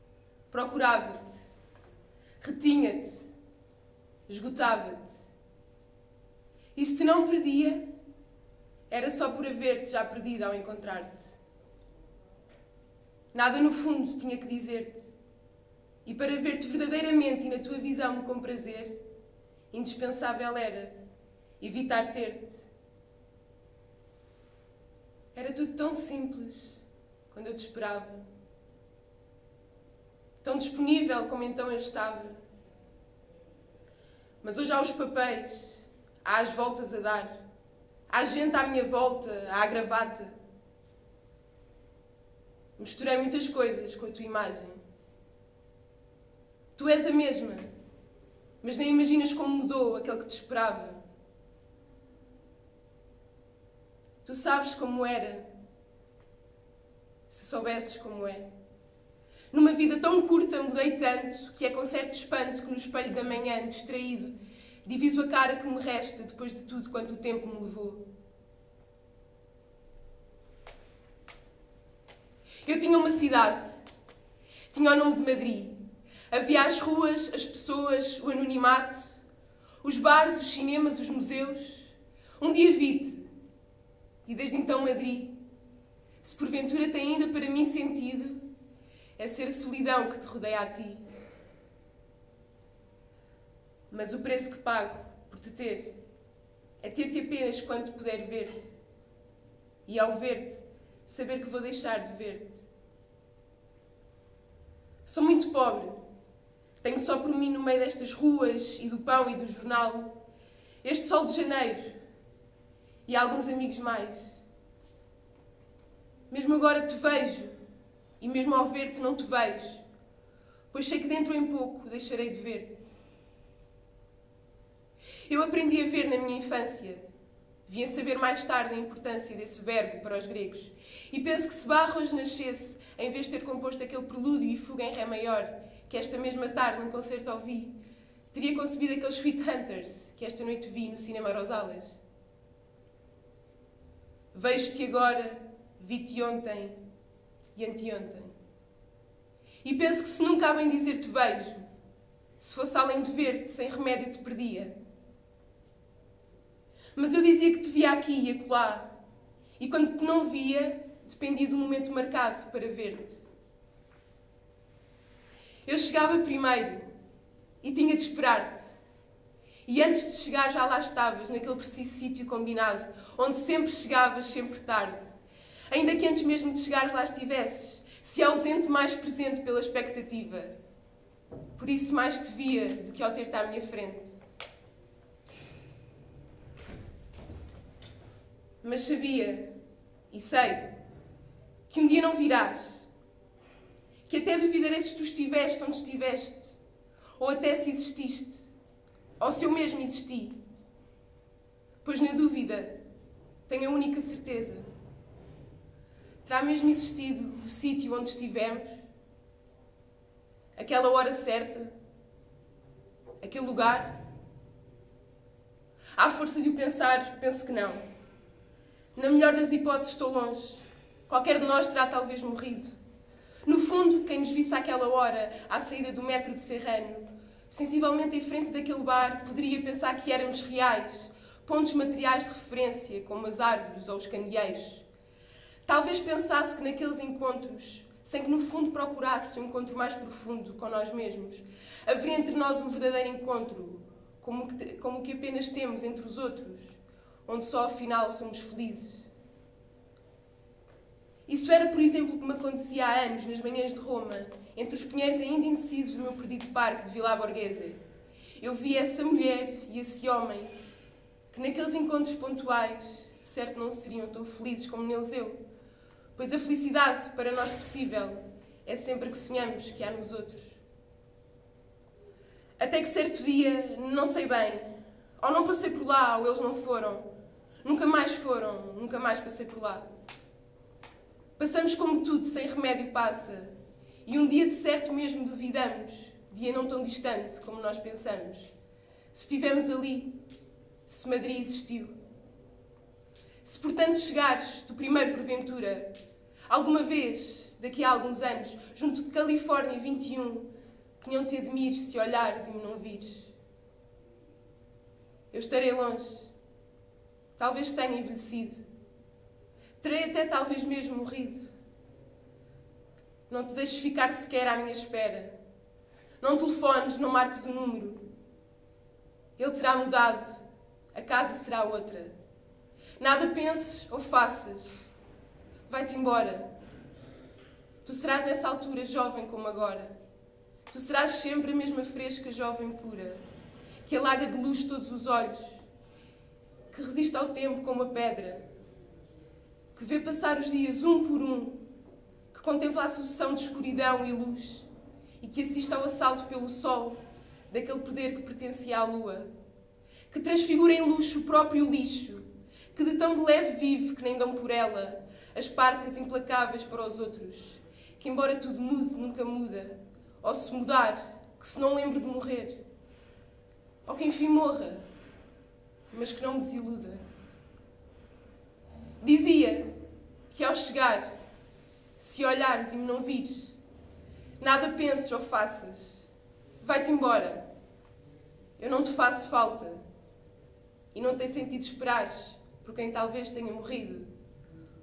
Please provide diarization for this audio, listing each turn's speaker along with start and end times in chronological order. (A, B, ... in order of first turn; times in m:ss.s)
0:00.5-0:01.3 A
0:02.4-0:03.3 A
0:04.3-0:05.1 A
0:06.7-0:07.9 A
0:08.9-0:11.3 A
0:13.3-0:15.1 A
0:16.0-0:19.0 A
0:19.7-0:20.9 A
0:21.6-0:22.6 A
0:25.3-0:28.2 A
0:30.4-0:32.4 A
0:34.4-0:37.4 A
0:38.1-0:40.4 A
0:42.8-0:44.8 A
0:46.7-0:47.7 A
0:48.6-0:51.0 A
0:54.2-0:55.5 A
0:57.3-0:58.5 A
0:59.5-1:08.0 A
1:12.6-1:13.7 A
1:14.7-1:15.8 A
1:16.3-1:19.2 A
1:19.8-1:23.3 A
1:24.2-1:25.4 A
1:26.2-1:28.4 A
1:29.2-1:31.0 A
1:33.9-1:35.9 A
1:36.8-1:38.7 A
1:39.8-1:42.6 A
1:45.0-1:46.0 A
1:46.8-1:50.2 A
1:50.8-1:51.9 A
1:53.1-1:54.4 A
1:56.3-1:57.6 A
1:58.2-1:59.8 A
2:00.7-2:02.8 A
2:05.3-2:07.0 A
2:07.7-2:17.7 A
2:18.3-2:22.0 A
2:24.3-2:26.8 A
2:27.5-2:28.4 A
2:29.6-2:31.7 A
2:32.4-2:34.8 A
2:36.9-2:38.9 A
2:39.6-2:43.2 A
2:45.7-2:46.9 A
2:47.6-2:48.7 A
2:49.7-2:55.0 A
2:55.7-3:00.5 A
3:01.6-3:04.1 A
3:08.6-3:09.5 A
3:10.1-3:10.7 A
3:11.7-3:12.9 A
3:14.1-3:16.6 A
3:17.2-3:18.5 A
3:19.2-3:20.4 A
3:21.8-3:22.8 A
3:23.5-3:24.7 A
3:26.2-3:28.7 A
3:30.5-3:31.7 A
3:33.2-3:34.0 A
3:36.0-3:37.8 A
3:38.9-3:42.7 A
3:43.4-3:54.8 A
3:55.6-4:09.1 A
4:11.3-4:17.8 A
4:18.4-4:20.5 A
4:21.3-4:25.4 A
4:26.2-4:30.6 A
4:32.6-4:37.1 A
4:37.6-4:39.9 A
4:41.4-4:48.5 A
4:49.1-4:50.2 A
4:50.9-4:51.9 A
4:53.4-4:55.9 A
4:56.5-5:00.5 A
5:01.0-5:03.3 A
5:05.3-5:06.3 A
5:07.4-5:08.6 A
5:09.8-5:11.5 A
5:13.3-5:15.4 A
5:16.2-5:18.0 A
5:19.4-5:20.4 A
5:20.9-5:22.1 A
5:23.0-5:24.9 A
5:25.7-5:26.5 A
5:27.8-5:29.9 A
5:30.7-5:33.2 A
5:33.8-5:35.6 A
5:36.7-5:38.4 A
5:39.7-5:41.6 A
5:42.3-5:44.7 A
5:45.2-5:49.3 A
5:50.1-6:02.6 A
6:03.8-6:04.8 A
6:05.9-6:07.0 A
6:09.0-6:09.7 A
6:10.3-6:11.1 A
6:12.0-6:13.6 A
6:14.4-6:16.1 A
6:16.6-6:17.4 A
6:18.6-6:19.8 A
6:20.9-6:24.1 A